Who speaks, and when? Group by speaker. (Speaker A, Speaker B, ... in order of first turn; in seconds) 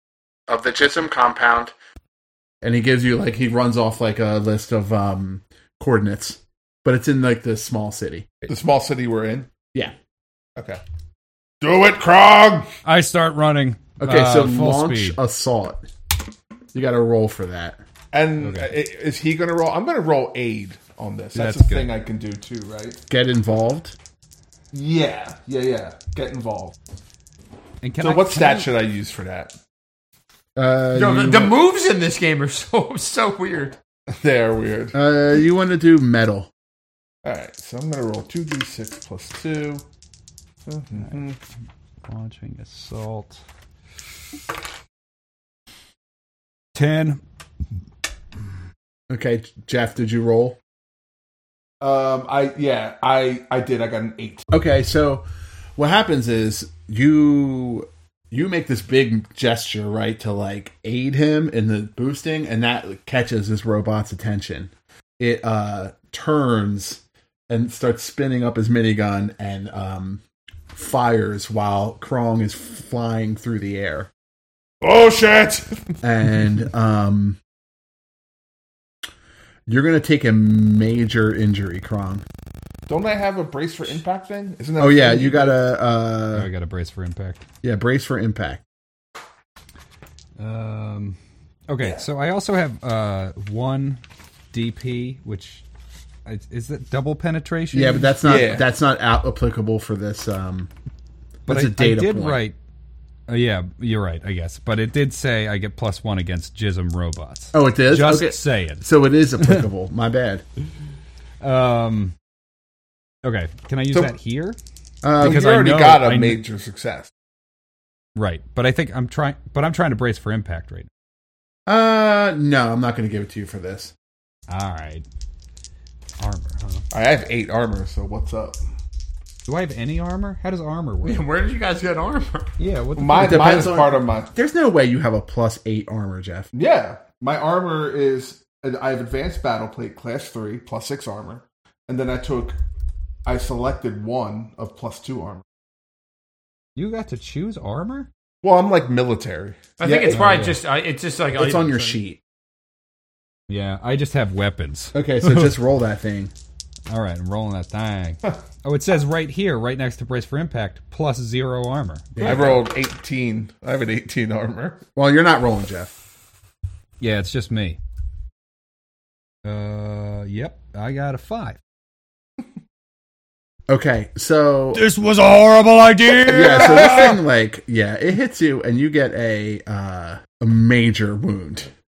Speaker A: 0.5-1.7, 2.6-8.3, 14.0-15.8, 16.7-17.8, 23.1-23.9, 30.6-31.5, 34.9-36.5, 49.1-50.6, 54.5-55.2, 55.8-70.2, 70.7-74.1, 76.0-77.4, 79.7-82.2, 84.8-86.5, 87.6-88.6, 97.7-100.7, 101.5-102.4, 107.5-110.4, 115.0-115.6, 121.7-123.9, 133.2-136.5, 149.8-150.4, 151.3-152.2, 154.9-156.3, 162.2-162.6, 164.9-165.9, 173.7-174.8, 176.2-181.7
Speaker B: 8.5-9.5, 11.6-12.7, 18.1-23.0, 24.7-26.8, 28.0-29.6, 34.1-35.0, 37.2-39.9, 40.6-41.4, 51.8-54.4, 74.8-76.0, 82.9-85.5, 98.2-98.7, 115.2-117.1, 126.9-128.6, 132.9-134.3, 136.5-142.6, 143.2-145.4, 148.4-149.7, 162.2-164.8
Speaker C: 12.8-15.2, 18.4-18.7, 21.3-21.9, 27.8-28.7, 42.0-43.4, 46.7-47.2, 86.3-87.4, 90.4-91.2, 91.7-94.0, 94.5-95.6, 96.2-98.2, 101.5-102.5, 103.3-108.8, 111.4-112.1, 113.2-114.6, 115.2-116.4, 118.2-120.9, 124.5-125.0, 126.2-126.8, 129.5-131.2, 132.6-133.8, 146.7-148.1, 150.1-150.6, 153.5-155.5, 156.9-162.6, 167.0-167.8, 169.4-171.6
Speaker D: 30.9-33.8, 131.0-132.5, 149.8-152.0
Speaker E: 174.7-177.1